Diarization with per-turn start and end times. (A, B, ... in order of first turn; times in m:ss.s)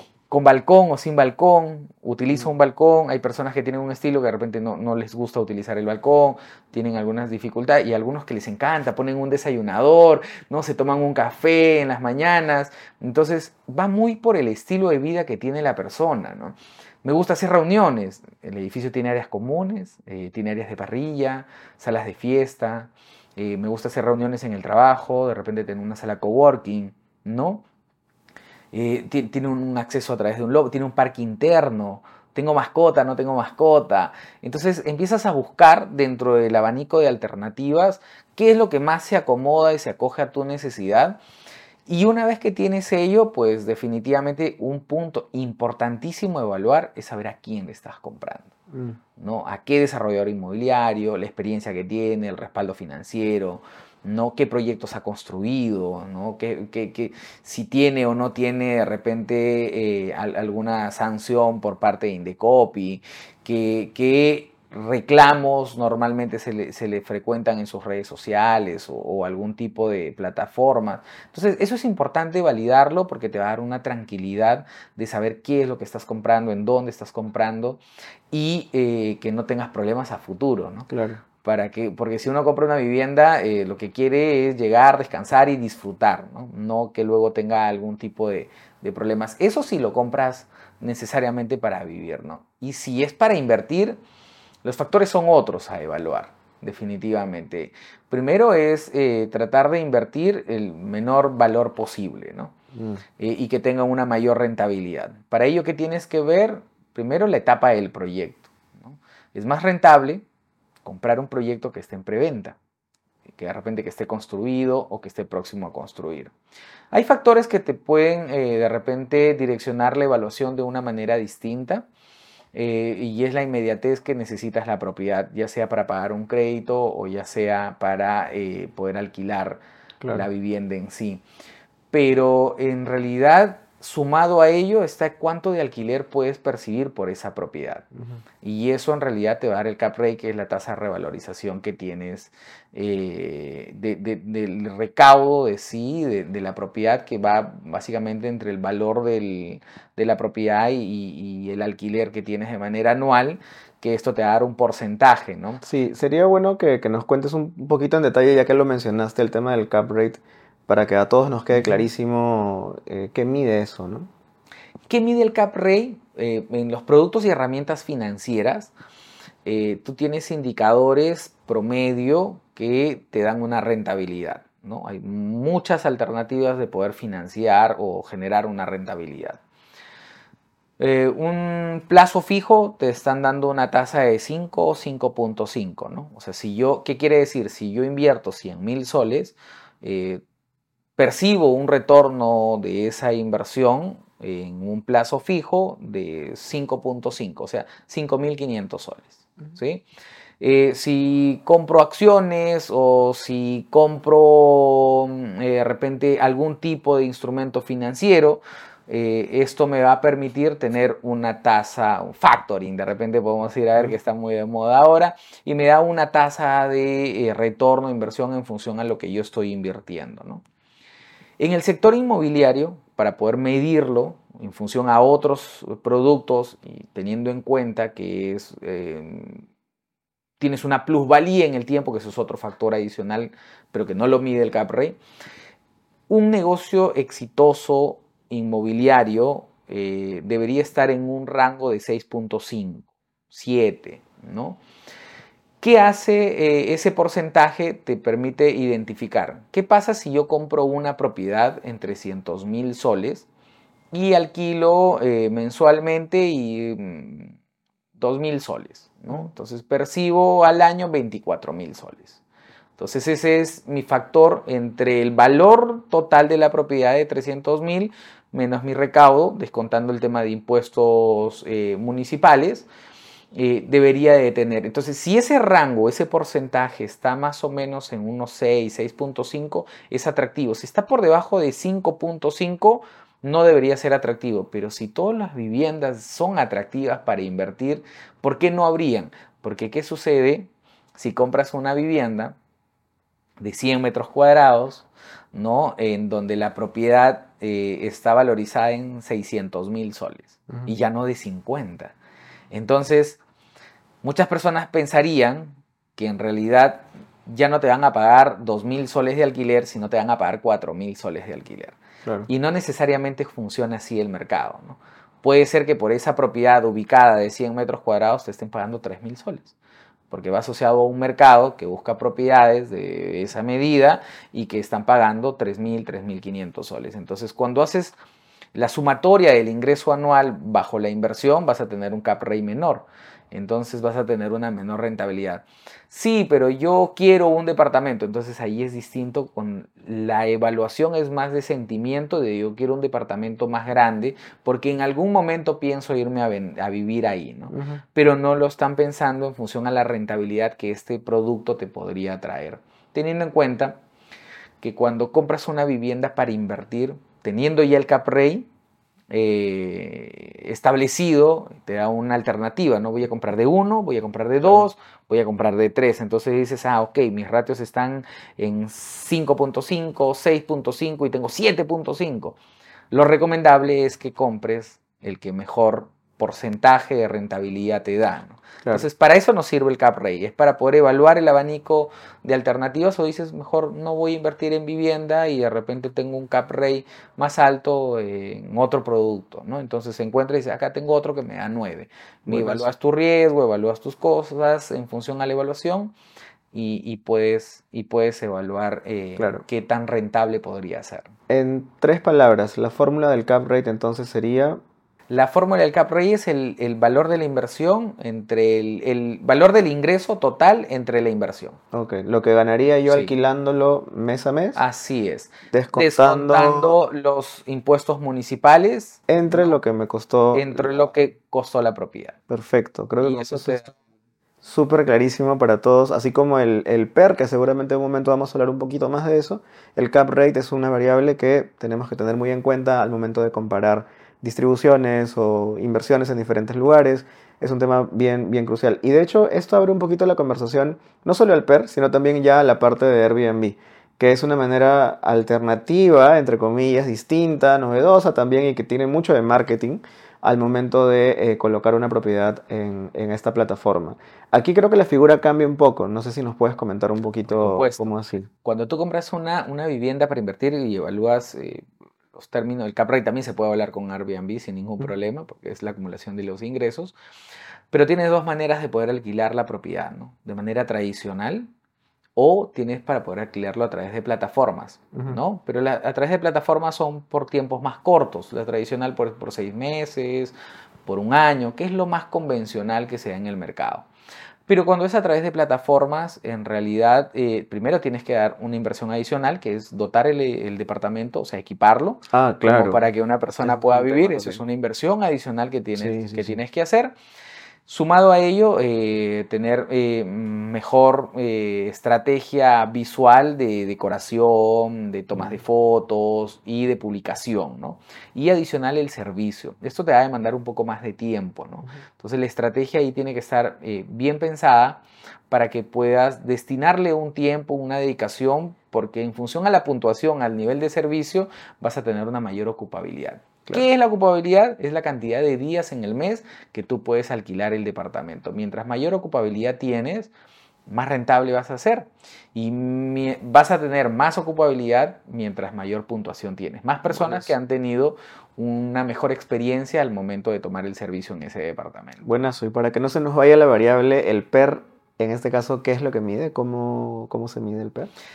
0:00.3-0:27.6 A
0:28.7-0:41.2 A
0:41.9-0:48.5 A
0:48.7-0:49.0 B
0:49.2-1:20.9 A
1:20.9-1:21.2 B
1:21.4-1:34.0 A
1:34.6-1:42.5 A
1:42.7-1:43.0 B
1:43.2-1:50.3 A
1:50.8-1:52.6 A
1:53.3-1:56.3 A
1:56.9-2:01.9 A
2:02.5-2:11.2 A
2:11.9-2:17.9 A
2:18.0-2:18.2 B
2:18.4-2:35.6 A
2:35.6-2:44.1 B
2:41.5-2:41.9 A
2:44.9-2:48.7 A
2:49.4-2:59.4 A
3:00.8-3:10.2 A
3:11.0-3:19.8 A
3:20.4-3:40.4 A
3:41.4-3:49.5 A
3:50.4-3:55.0 A
3:56.1-4:04.6 A
4:05.6-4:13.3 A
4:13.9-4:17.4 A
4:18.0-4:22.2 A
4:22.8-4:32.7 A
4:33.3-4:52.4 A
4:53.4-5:02.0 A
5:02.5-5:03.2 A
5:04.0-5:11.8 A
5:12.3-5:19.6 A
5:20.1-5:28.0 A
5:28.6-5:53.8 A
5:47.5-5:47.8 B
5:54.6-5:58.5 A
5:59.1-6:12.4 A
6:12.9-6:35.9 A
6:32.3-6:32.7 B
6:36.5-6:41.1 A
6:39.2-6:39.4 B
6:41.3-6:44.6 B
6:45.1-6:51.6 A
6:51.7-6:54.6 B
6:52.9-6:53.1 A
6:54.6-6:59.6 A
6:55.5-6:56.7 B
6:59.1-7:00.9 B
7:00.3-7:02.2 A
7:02.3-7:03.7 B
7:03.0-7:03.7 A
7:04.4-7:38.3 B
7:37.3-7:37.8 A
7:38.4-7:47.0 A
7:47.7-7:51.5 A
7:52.2-8:00.3 A
7:54.9-7:55.2 B
8:00.9-8:03.9 A
8:04.5-8:16.9 A
8:12.1-8:12.8 B
8:13.4-8:14.4 B
8:15.8-8:16.4 B
8:17.7-8:50.1 A
8:50.7-9:02.0 A
8:56.9-8:57.3 B
9:02.0-9:07.9 B